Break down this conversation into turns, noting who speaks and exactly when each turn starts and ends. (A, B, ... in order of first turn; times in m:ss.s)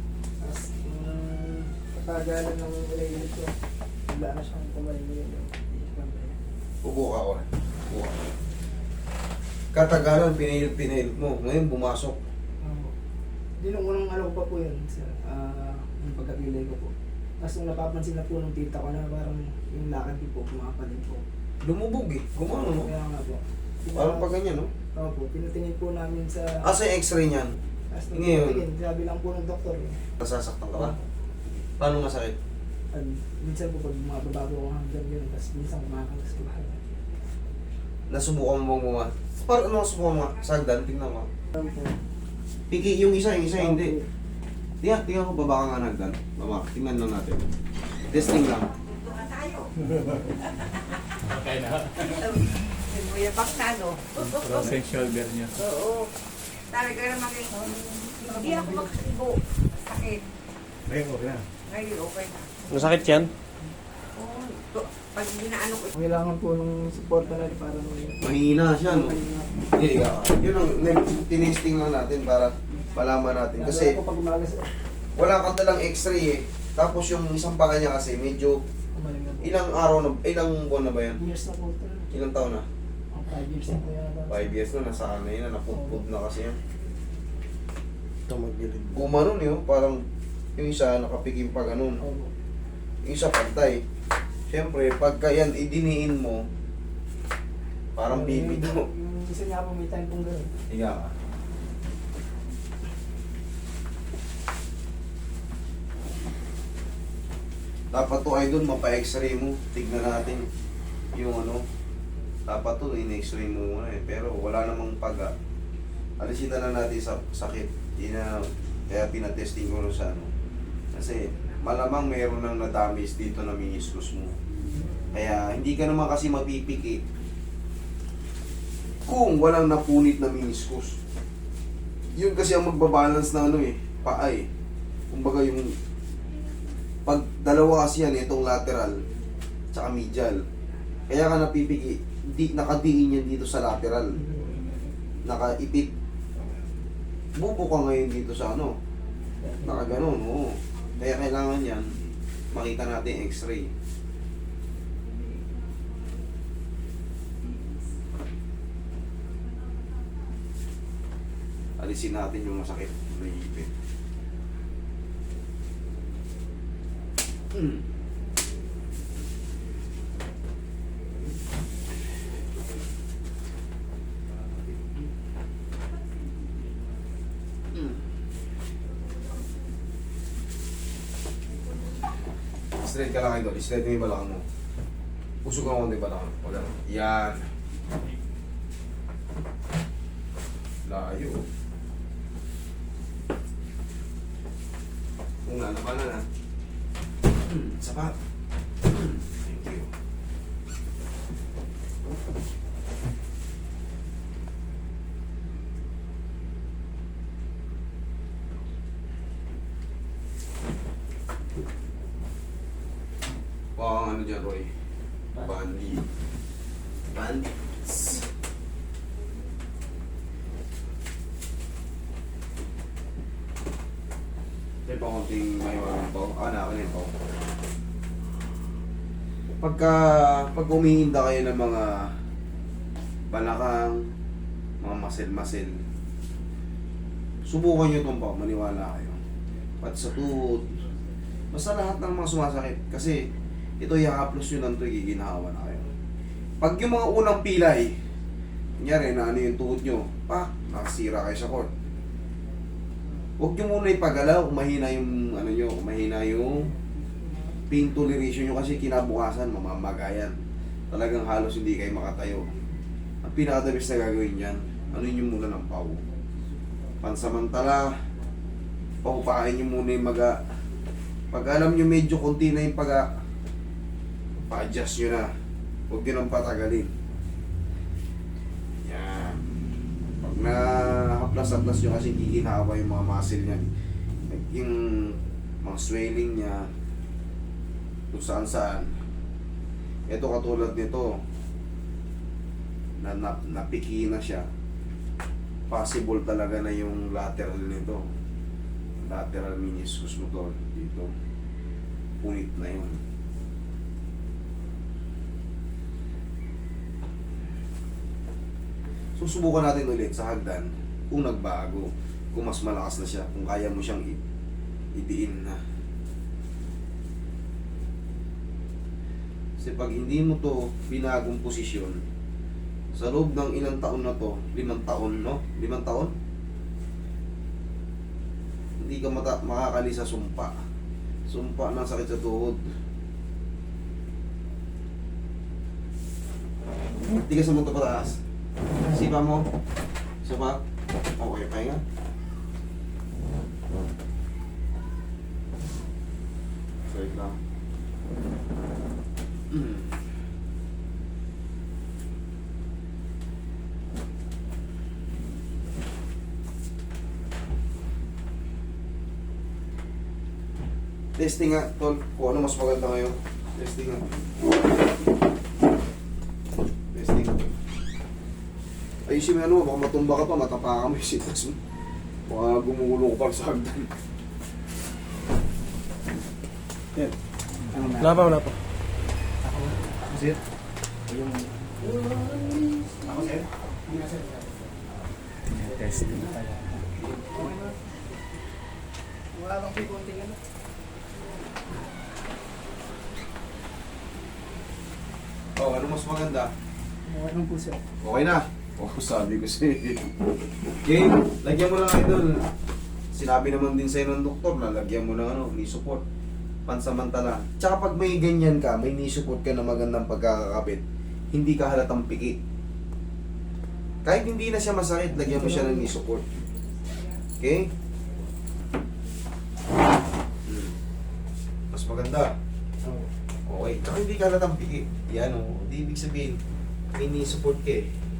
0:00.4-0:03.5 A
0:04.1-0:06.4 A
0:06.8-0:08.2 B
0:09.7-0:12.2 B
0:12.6-0:12.9 A
0:13.6-0:21.2 A
0:21.6-0:22.9 B
0:22.6-0:24.3 A
0:24.0-0:24.7 B
0:24.9-0:26.7 A
0:26.6-0:27.6 B
0:27.9-0:30.0 A
0:28.1-0:28.7 B
0:30.2-0:31.0 B
0:31.8-0:32.3 B
0:32.9-0:36.8 A
0:38.1-0:41.3 B
0:42.7-0:44.0 B
0:43.6-0:44.0 A
0:44.8-0:47.4 B
0:48.1-0:48.7 B
0:48.8-0:49.7 C
0:52.0-0:54.7 C
0:54.2-0:55.6 D
0:55.6-0:56.1 C
0:56.7-0:57.6 C
0:57.5-0:58.9 A
0:58.2-1:00.2 C
1:00.9-1:01.4 D
1:01.7-1:02.7 C
1:02.7-1:03.3 E
1:04.2-1:05.9 C
1:05.9-1:08.2 A
1:08.2-1:09.2 B
1:08.8-1:09.7 A
1:09.7-1:14.0 B
1:13.6-1:14.7 A
1:15.2-1:18.6 B
1:19.0-1:19.5 A
1:19.4-1:21.2 B
1:21.2-1:22.1 A
1:22.1-1:22.7 B
1:23.1-1:24.6 A
1:24.3-1:26.6 B
1:25.7-1:26.0 A
1:28.3-1:29.0 E
1:28.9-1:30.0 B
1:30.6-1:32.0 B
1:32.0-1:32.3 A
1:33.0-1:33.8 B
1:34.5-1:36.4 B
1:38.0-1:38.9 B
1:38.1-1:40.5 A
1:40.7-1:41.1 B
1:47.9-1:50.5 B
1:51.1-1:51.6 B
1:52.5-1:55.3 B
1:56.2-2:00.3 B
2:00.9-2:04.4 B
2:05.1-2:07.0 B
2:09.0-2:11.0 B
2:12.1-2:14.5 B
2:15.1-2:15.7 B
2:17.0-2:19.0 B
2:19.7-2:20.4 B
2:21.1-2:24.2 B
2:24.2-2:24.5 A
2:25.2-2:25.9 B
2:27.4-2:28.7 B
2:29.4-2:30.0 A
2:29.6-2:31.9 B
2:32.5-2:33.7 B
2:41.8-2:43.7 B
3:02.8-3:04.4 B
3:05.4-3:07.5 B
3:10.8-3:11.4 B
3:15.4-3:16.2 B
3:17.4-3:18.2 B
3:18.8-3:19.9 B
3:33.8-3:34.7 B
3:35.3-3:36.1 B
3:37.1-3:38.3 B
3:44.8-3:47.1 B
3:49.6-3:52.1 B
3:53.3-3:54.1 B
3:54.8-3:55.8 B
3:57.4-3:59.2 B
3:59.8-4:00.8 B
4:01.5-4:03.3 B
4:03.8-4:05.9 B
4:06.6-4:08.0 B
4:08.8-4:11.7 B
4:13.4-4:16.7 B
4:17.7-4:20.4 B
4:20.9-4:22.5 B
4:23.2-4:26.0 B
4:27.0-4:27.9 B
4:29.0-4:30.4 B
4:31.3-4:33.1 B
4:34.5-4:35.3 B
4:35.9-4:36.9 B
4:38.8-4:39.4 B
4:40.2-4:43.7 B
4:44.3-4:46.7 B
4:48.1-4:48.9 B
4:50.1-4:51.1 B
4:53.0-4:54.5 B
4:55.7-4:58.0 B
4:59.0-5:01.1 B
5:02.2-5:03.0 B
5:09.2-5:14.2 B
5:15.0-5:15.6 B
5:19.6-5:22.0 B
5:22.9-5:26.1 B
5:28.8-5:30.5 B
5:31.3-5:32.6 B
5:37.1-5:38.2 B
5:38.8-5:39.4 B
5:40.2-5:40.6 B
5:41.2-5:41.8 B
5:46.9-5:47.4 B
5:49.5-5:50.0 B
6:01.2-6:04.0 B
6:06.9-6:07.5 B
6:09.1-6:11.6 B
6:12.3-6:13.9 B
6:17.8-6:18.5 E
6:25.6-6:26.6 D
6:25.9-6:26.4 E
6:27.3-6:27.8 A
6:29.3-6:30.4 A
6:35.6-6:36.5 B
6:37.1-6:37.8 A
6:38.0-6:40.1 B
6:40.8-6:42.5 B
6:43.1-6:46.0 B
6:46.7-6:52.4 B
6:54.0-6:56.2 B
6:55.1-6:55.9 A
6:57.4-6:57.7 B
7:00.5-7:00.8 B
7:01.7-7:02.3 B
7:03.5-7:06.4 B
7:06.9-7:07.9 B